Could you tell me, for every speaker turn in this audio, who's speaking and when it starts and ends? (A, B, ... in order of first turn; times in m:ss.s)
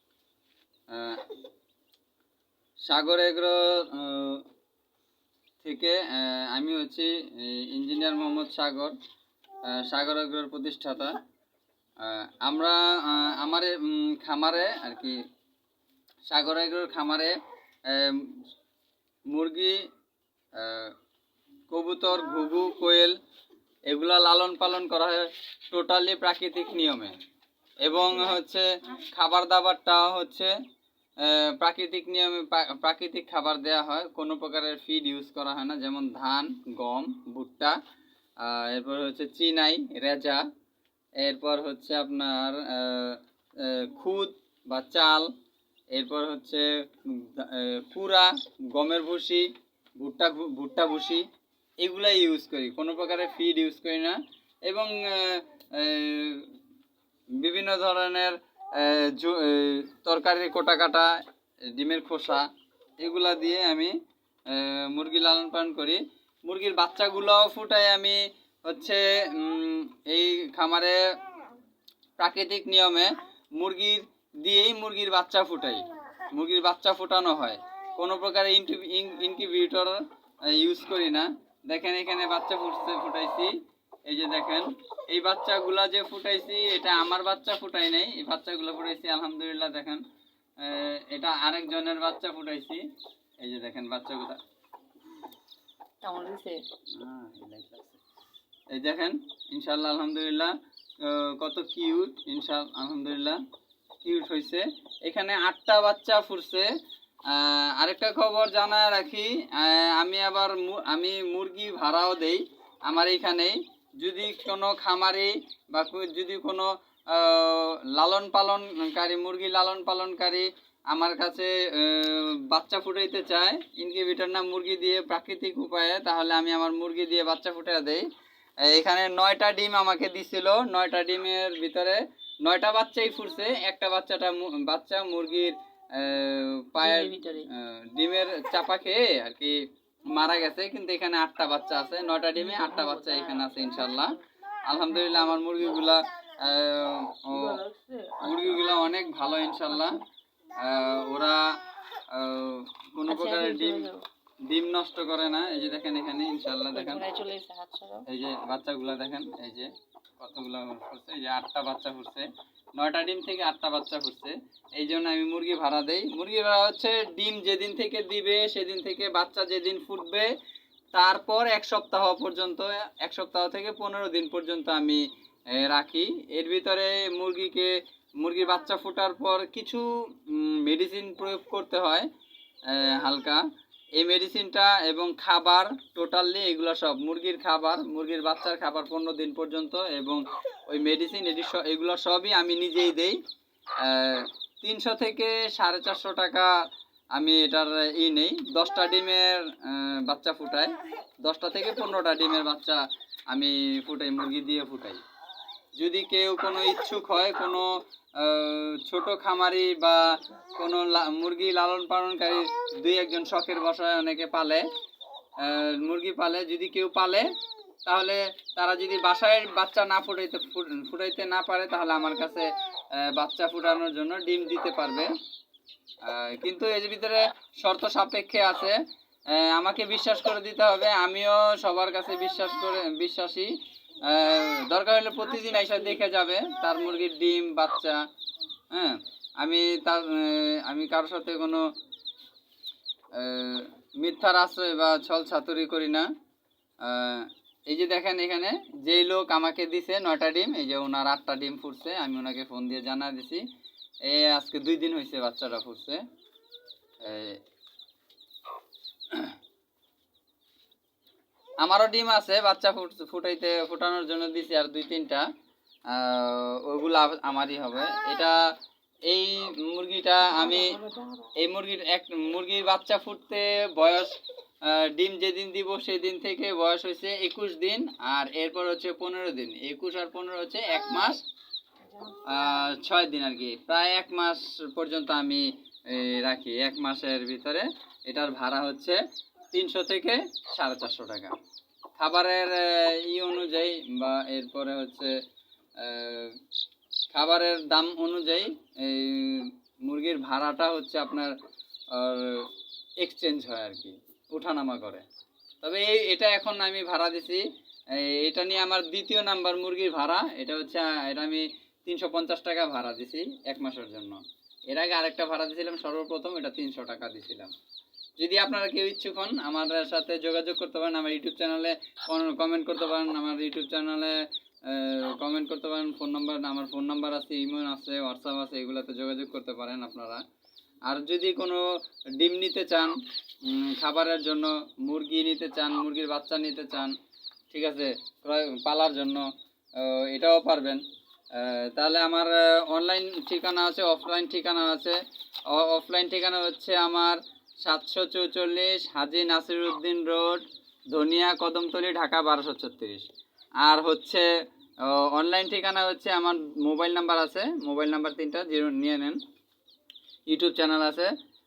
0:00.9-0:01.3 A
0:02.9-0:04.4 A
0:05.6-0:08.9 A
0:09.7-0:11.2 A
0:12.0-0:15.2 A
0:16.3-0:17.3 A
0:17.9-0:18.4 A
0:19.3-0:19.8 A
0:20.6-0:20.9 A
0:21.7-0:23.2 A
0:23.9-0:27.2 A
0:27.8-0:30.5 A
0:31.2-0:37.8 A
0:38.4-0:40.4 A
0:41.2-0:45.3 A
0:45.9-0:51.2 A
0:51.8-0:56.5 A
0:57.4-1:01.2 A
1:01.7-1:02.4 A
1:03.0-1:03.9 A
1:04.5-1:11.0 A
1:12.2-1:20.0 A
1:20.5-1:23.5 A
1:24.1-1:30.0 A
1:30.6-1:32.8 A
1:33.4-1:34.4 A
1:36.0-1:36.6 B
1:37.0-1:38.0 A
1:38.7-1:43.4 A
1:44.0-1:46.7 A
1:47.3-2:08.0 A
2:08.6-2:19.6 A
2:16.8-2:17.5 B
2:20.1-2:27.6 A
2:22.4-2:24.2 B
2:27.3-2:28.7 B
2:28.2-2:30.0 A
2:29.7-2:30.0 B
2:30.6-2:31.4 A
2:32.1-2:33.9 A
2:33.1-2:34.0 B
2:34.5-2:37.0 A
2:36.7-2:38.0 B
2:38.1-2:50.3 A
2:50.9-2:55.0 A
2:55.6-3:02.1 A
3:02.7-3:03.4 A
3:04.0-3:13.2 A
3:13.8-3:16.5 A
3:17.2-3:25.0 A
3:25.8-3:30.1 A
3:30.6-3:34.6 A
3:35.4-3:37.3 A
3:37.9-3:42.5 A
3:43.0-3:45.1 A
3:46.1-3:48.8 A
3:49.3-3:53.5 A
3:54.1-3:58.0 A
3:58.7-4:01.6 A
4:03.2-4:06.1 A
4:06.8-4:13.4 A
4:14.1-4:16.0 A
4:17.0-4:17.4 A
4:21.6-4:25.2 A
4:25.9-4:28.4 A
4:29.1-4:30.8 A
4:30.4-4:31.3 B
4:31.4-4:34.1 A
4:34.7-4:41.2 A
4:42.0-4:42.4 B
4:42.3-4:49.0 A
4:49.5-4:51.3 A
4:52.0-4:55.1 A
4:55.8-4:56.4 A
4:57.1-5:01.3 A
5:01.9-5:02.5 A
5:03.0-5:05.0 A
5:05.6-5:07.4 A
5:08.0-5:17.5 A
5:18.2-5:30.2 A
5:30.9-5:31.6 A
5:32.2-5:33.0 A
5:33.5-5:36.9 A
5:37.5-5:40.8 A
5:41.3-5:45.0 A
5:45.5-5:53.1 A
5:53.6-5:54.3 A
5:54.9-5:59.2 A
6:00.3-6:01.1 A